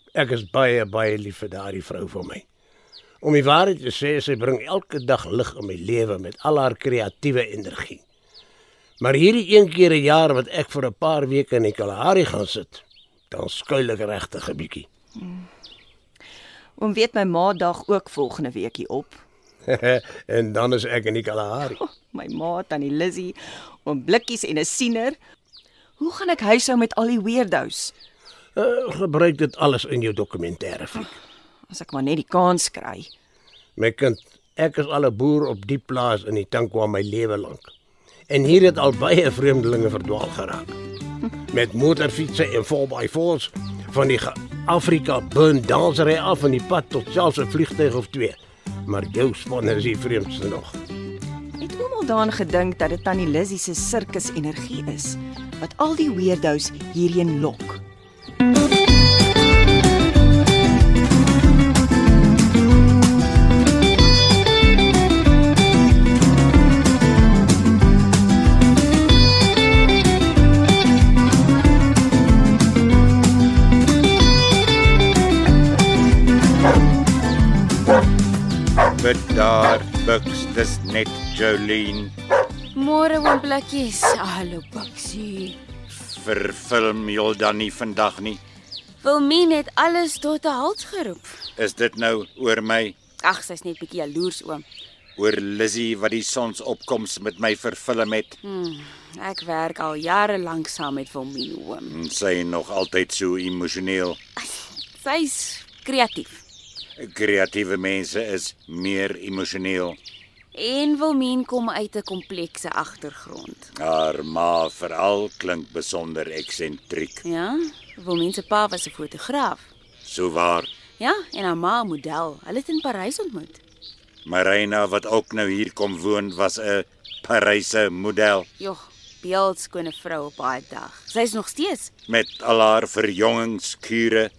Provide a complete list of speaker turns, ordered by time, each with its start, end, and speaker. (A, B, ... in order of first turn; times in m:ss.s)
0:00.1-0:02.4 A
0:03.2-0:08.0 A
0:09.0-0:14.9 A
0:15.2-0:15.5 B
0:16.8-0:19.2 B
0:19.7-0:21.8 A
0:21.7-0:25.2 B
0:26.0-0:27.9 B
0:28.6-0:31.1 A
0:31.7-0:33.1 B
0:33.8-0:37.7 A
0:38.3-0:40.8 A
0:41.5-0:50.8 A
0:51.6-0:57.8 B
1:19.0-1:22.1 C
1:22.7-1:25.6 D
1:26.0-1:28.4 C
1:29.0-1:31.3 D
1:31.6-1:33.0 C
1:33.2-1:34.6 D
1:35.2-1:38.4 C
1:38.4-1:41.9 D
1:41.9-1:44.2 C
1:45.0-1:46.4 D
1:47.0-1:50.0 C
1:50.5-1:53.7 D
1:53.8-1:57.2 C
1:57.2-1:59.6 D
2:00.0-2:00.7 C
2:01.0-2:03.6 D
2:04.2-2:08.5 C
2:08.6-2:11.9 D
2:12.1-2:14.3 C